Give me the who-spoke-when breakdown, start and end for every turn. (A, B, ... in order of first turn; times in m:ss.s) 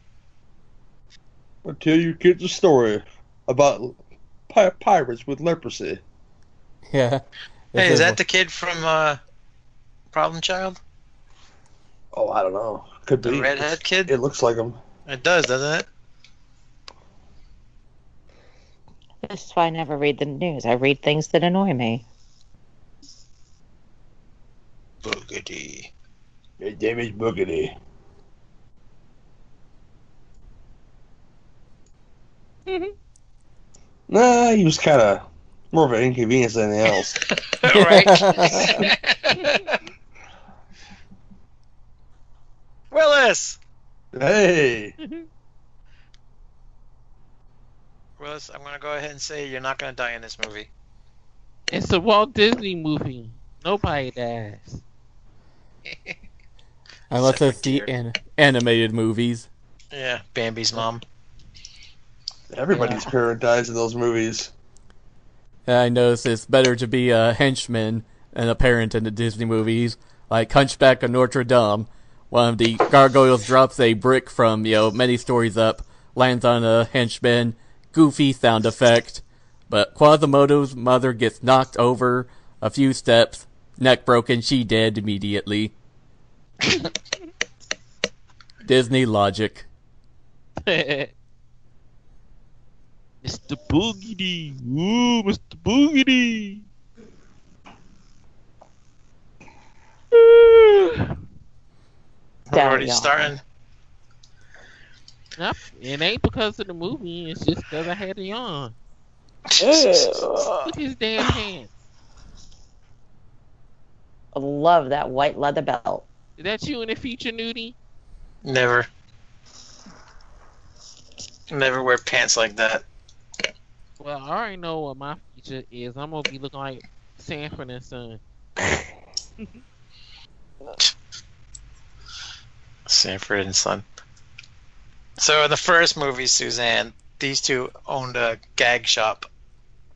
0:01.6-0:04.0 A
0:04.5-0:06.0 A
0:06.9-0:07.2 B
0:07.7-0:08.2 B
0:07.7-0:09.2 C
0:10.1-0:10.8 C
0:12.1-0:14.8 A
0:13.2-0:14.1 C
0:15.1-0:15.9 C
0:19.2-0:22.0 D
0:25.0-0:25.9 C
0:26.6-0:27.7 A
0:32.7-0:32.9 E
0:34.1-0:37.2 A
0:37.4-0:39.7 C
0:37.7-0:38.9 B
0:39.3-0:39.7 E
0:42.9-0:43.6 C
0:44.1-0:44.9 A
0:45.0-0:45.2 E
0:48.2-0:50.7 C
0:51.7-0:54.8 E
0:57.1-0:59.5 B
0:57.2-0:57.9 C
0:59.9-1:01.0 C
1:02.5-1:04.5 A
1:05.7-1:25.7 B
1:28.6-1:29.7 B
1:30.6-1:31.1 E
1:33.2-1:36.6 E
1:40.1-1:41.1 E
1:42.5-1:43.4 C
1:42.5-1:43.3 D
1:45.4-1:48.7 E
1:49.5-1:50.6 C
1:49.6-1:50.4 D
1:50.6-1:51.7 E
1:54.3-1:56.0 D
1:56.4-1:57.8 E
1:58.4-1:58.9 C
2:01.5-2:02.8 C
2:04.0-2:08.2 E
2:12.9-2:13.8 C
2:15.2-2:19.3 C